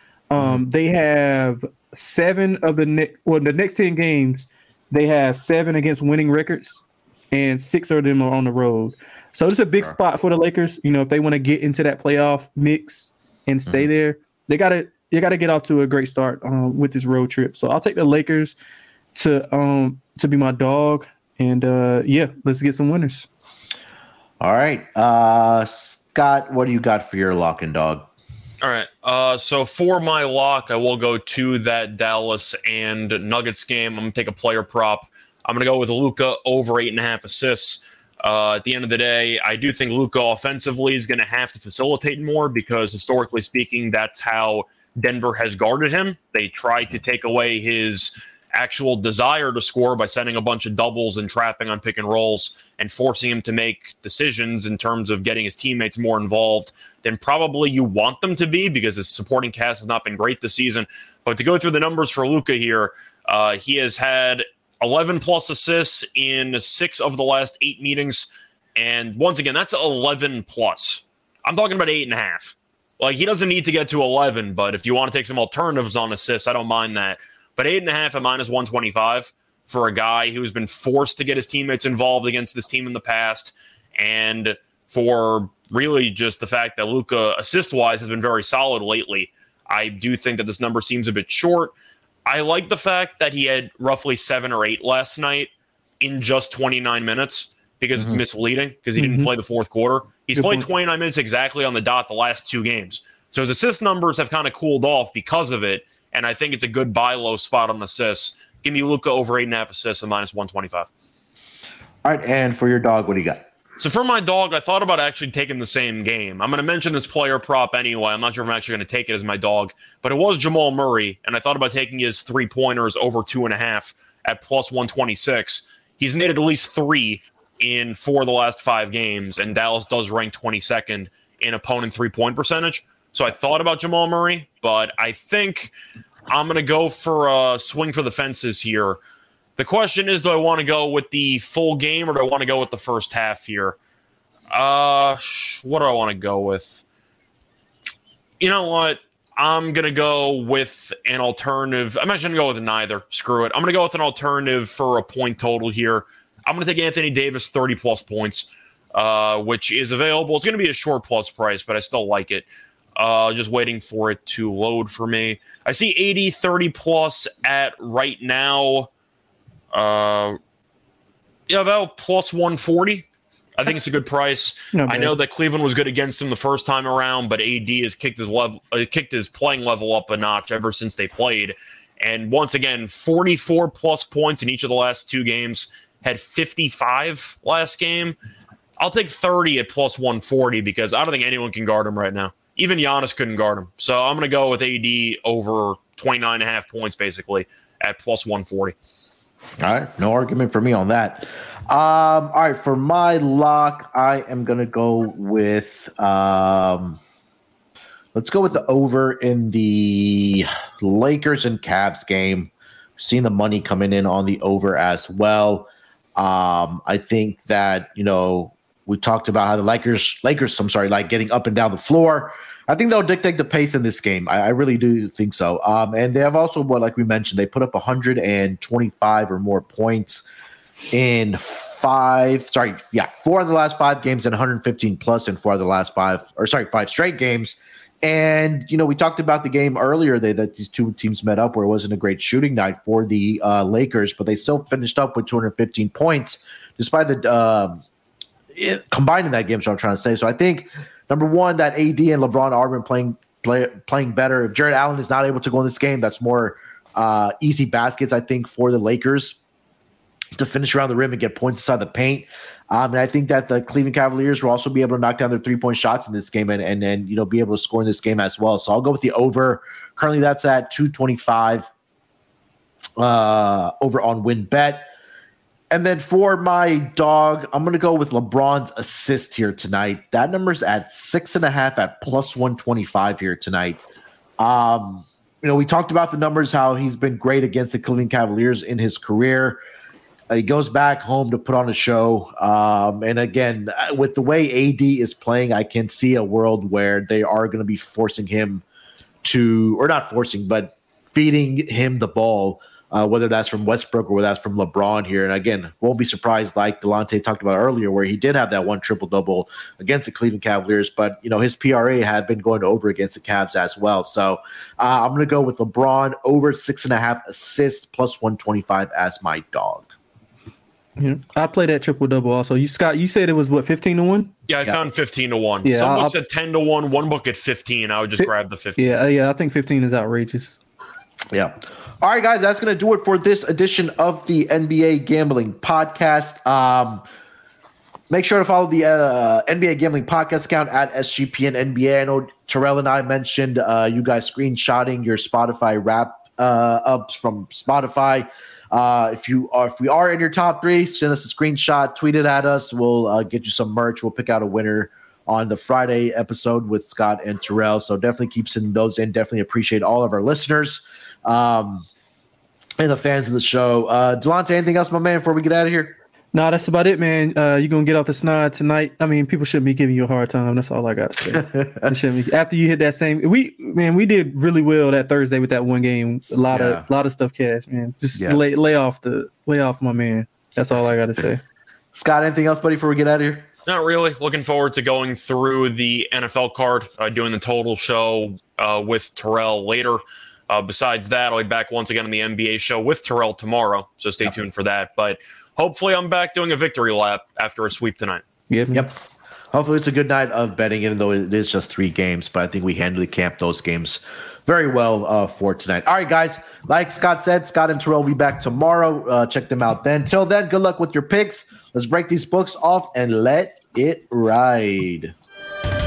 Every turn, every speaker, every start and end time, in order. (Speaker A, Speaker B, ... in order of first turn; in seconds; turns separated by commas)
Speaker A: 0.3-18.5, Speaker B: 0.4-0.6, Speaker A: 19.1-23.3, Speaker B: 24.4-28.1, Speaker C: 28.6-91.7, Speaker C: 92.2-110.9, Speaker A: 99.0-99.3, Speaker A: 100.3-100.7, Speaker B: 112.0-113.4, Speaker C: 113.8-135.7, Speaker C: 136.3-139.0, Speaker C: 139.6-143.8, Speaker C: 144.5-146.8, Speaker C: 148.4-168.9, Speaker C: 169.7-170.4, Speaker C: 171.5-188.2, Speaker A: 174.7-175.1, Speaker C: 188.8-198.7, Speaker B: 199.6-207.0, Speaker B: 208.1-230.2, Speaker B: 230.9-247.8, Speaker B: 248.5-259.4, Speaker B: 260.4-271.7, Speaker B: 273.0-274.9, Speaker B: 275.7-283.8, Speaker B: 284.4-289.6, Speaker B: 290.3-298.6, Speaker B: 299.2-319.9, Speaker A: 321.0-324.3, Speaker C: 324.5-328.8, Speaker A: 325.6-326.1, Speaker A: 328.2-330.6, Speaker B: 331.3-337.0, Speaker B: 338.1-361.8, Speaker B: 362.8-366.0, Speaker A: 366.3-381.4, Speaker B: 371.3-371.9, Speaker B: 376.5-376.8, Speaker B: 381.9-383.5, Speaker C: 383.6-398.2, Speaker A: 398.5-398.9, Speaker B: 399.5-415.1